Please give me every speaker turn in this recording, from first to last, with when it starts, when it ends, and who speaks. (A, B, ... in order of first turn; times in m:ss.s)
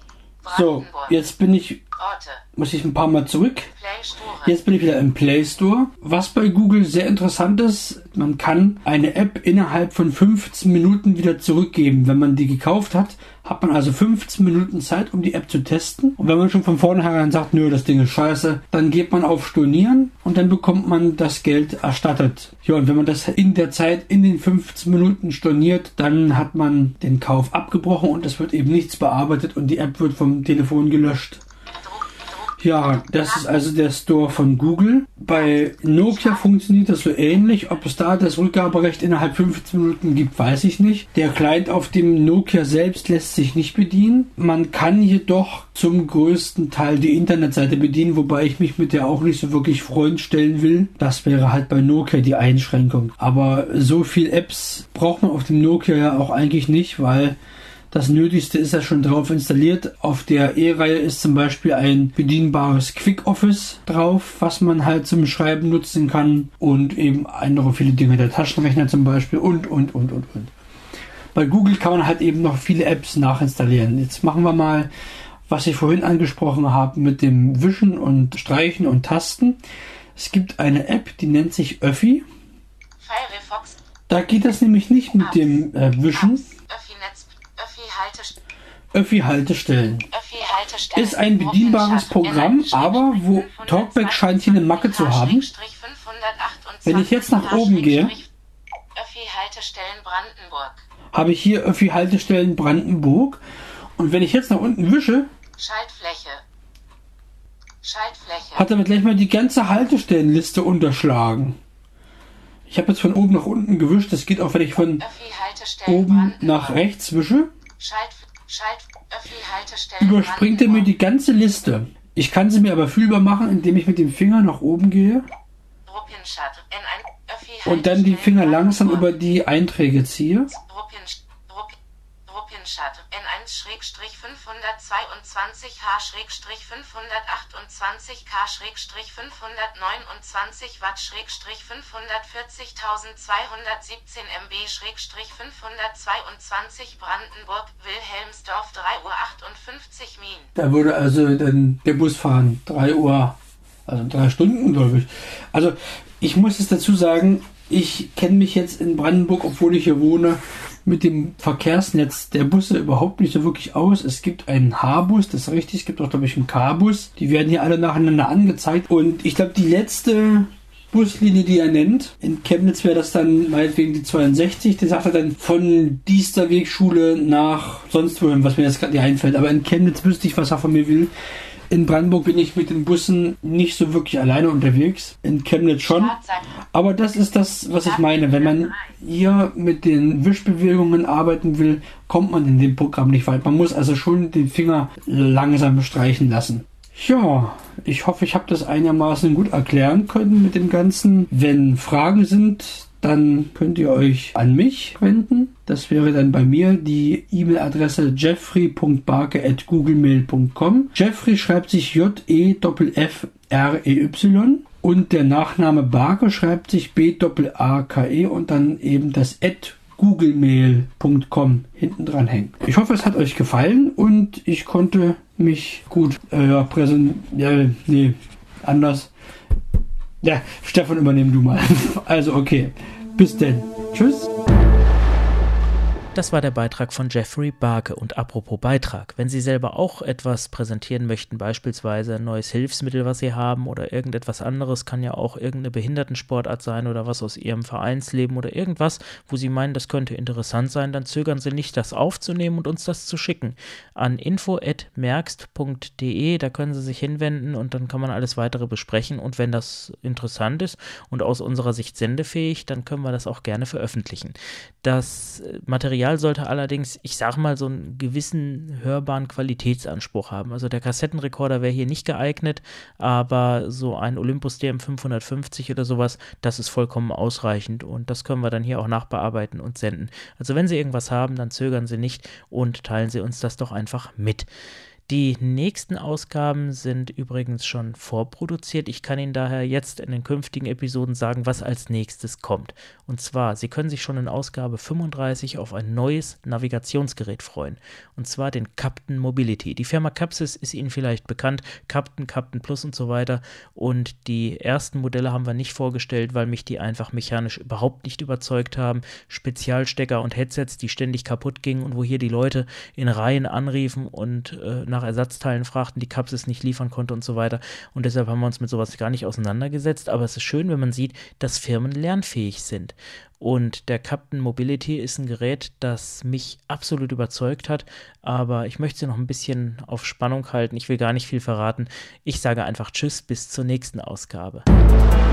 0:00.4-0:01.2 A
0:00.4-0:01.8 B
0:02.0-0:02.4 A
0:02.6-0:03.7 B
0:03.7-0:04.6 A
0:04.4-0:31.4 B
0:31.8-0:33.7 A
0:32.6-0:57.4 B
0:35.3-0:36.5 A
0:37.5-0:37.8 A
0:57.9-1:10.5 B
1:11.3-1:14.9 B
1:15.5-1:19.6 B
1:20.2-1:22.2 B
1:23.0-1:23.8 A
1:24.1-1:26.4 B
1:25.2-1:25.6 A
1:26.1-1:28.4 A
1:28.9-1:30.1 B
1:30.1-1:38.3 A
1:30.9-1:35.5 B
1:36.8-1:38.1 B
1:38.9-1:40.8 A
1:41.1-1:43.4 B
1:44.0-1:45.3 B
1:45.6-1:46.4 A
1:47.8-1:48.7 A
1:48.5-1:51.6 B
1:52.7-1:55.0 B
1:55.0-1:56.8 A
1:55.8-1:57.5 B
1:57.8-2:00.9 A
2:00.0-2:05.2 B
2:05.8-2:09.1 A
2:07.6-2:10.5 B
2:10.5-2:30.5 A
2:30.5-3:01.1 B
3:01.7-3:06.2 B
3:05.8-3:06.5 A
3:06.7-3:49.1 B
3:07.7-3:09.0 A
3:50.2-3:54.3 B
3:56.1-4:44.5 C
4:45.1-5:34.6 C